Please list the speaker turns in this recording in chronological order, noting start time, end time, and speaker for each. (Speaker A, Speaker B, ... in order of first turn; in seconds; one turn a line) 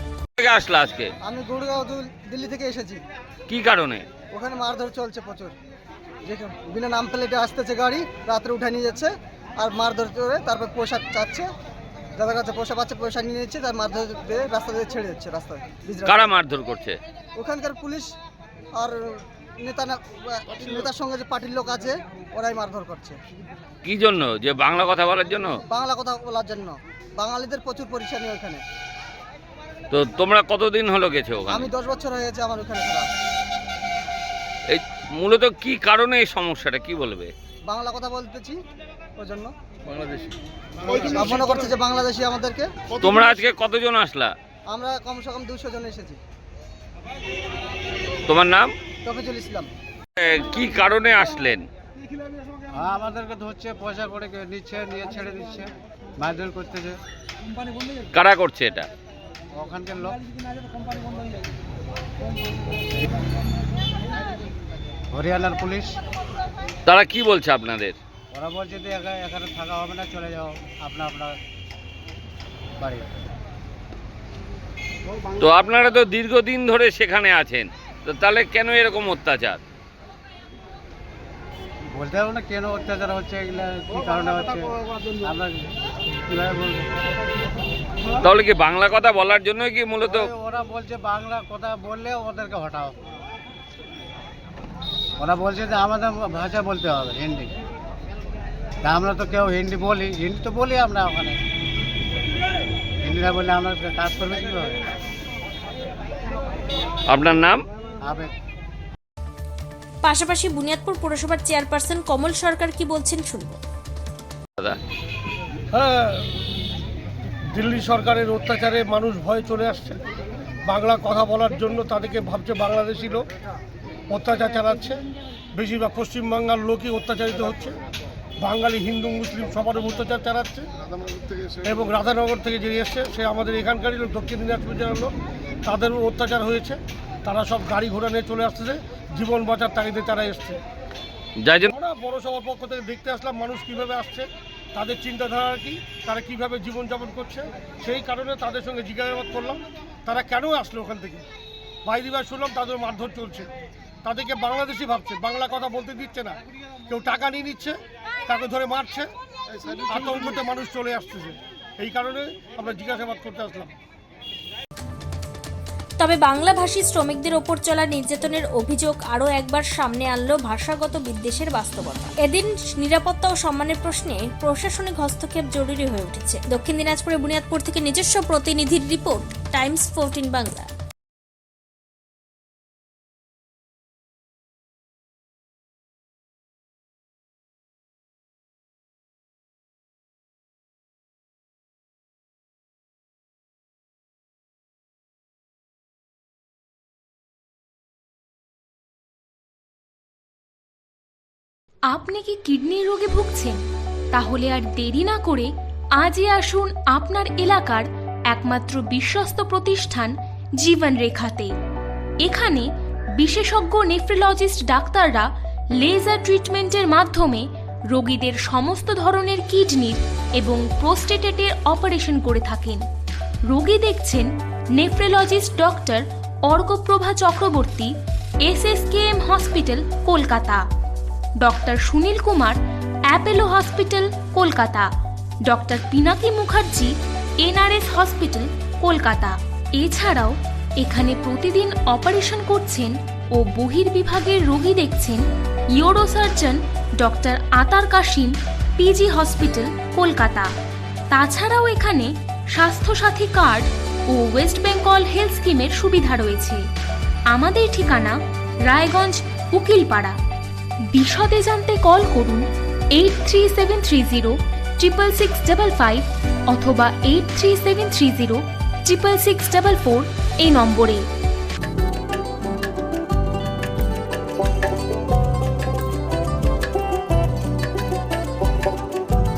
Speaker A: 0.4-1.1
Speaker B: 1.2-3.0
Speaker A: 3.5-4.0
Speaker B: 4.3-5.5
Speaker B: 6.2-11.5
Speaker B: 12.2-16.3
Speaker A: 16.0-17.0
Speaker B: 17.4-18.1
Speaker B: 18.8-23.2
Speaker A: 23.8-25.6
Speaker B: 25.7-28.6
Speaker A: 29.9-31.7
Speaker B: 31.5-33.1
Speaker A: 34.7-37.3
Speaker B: 37.7-38.6
Speaker B: 39.2-39.5
Speaker B: 40.9-42.8
Speaker A: 43.0-44.3
Speaker B: 44.7-46.2
Speaker A: 48.3-48.7
Speaker B: 49.0-49.7
Speaker A: 50.2-51.6
Speaker C: 52.7-57.0
Speaker A: 58.1-58.9
Speaker C: 59.6-60.2
Speaker C: 65.1-66.0
Speaker A: 66.8-68.0
Speaker C: 68.3-71.4
Speaker C: 72.8-73.1
Speaker A: 75.4-79.6
Speaker C: 81.9-85.7
Speaker C: 86.3-86.9
Speaker A: 88.2-90.3
Speaker C: 90.0-92.9
Speaker C: 95.2-97.5
Speaker C: 98.8-101.4
Speaker C: 103.0-104.8
Speaker A: 107.1-107.6
Speaker C: 108.0-108.3
Speaker D: 110.0-113.6
Speaker E: 115.7-116.4
Speaker E: 117.5-120.0
Speaker E: 120.7-123.2
Speaker E: 124.1-125.0
Speaker E: 125.5-127.8
Speaker E: 128.4-130.7
Speaker E: 131.6-135.1
Speaker E: 135.7-140.6
Speaker A: 141.4-141.7
Speaker E: 141.7-151.2
Speaker E: 151.8-153.5
Speaker E: 154.0-156.4
Speaker E: 156.9-157.8
Speaker E: 158.3-159.1
Speaker E: 159.8-163.7
Speaker D: 166.0-180.7
Speaker F: 201.9-203.6
Speaker F: 204.1-211.5
Speaker F: 212.2-212.7
Speaker F: 213.2-222.8
Speaker F: 223.5-227.9
Speaker F: 228.4-230.6
Speaker F: 231.4-234.9
Speaker F: 235.4-245.2
Speaker F: 245.7-250.5
Speaker F: 251.1-256.6
Speaker F: 257.3-260.1
Speaker F: 260.9-271.1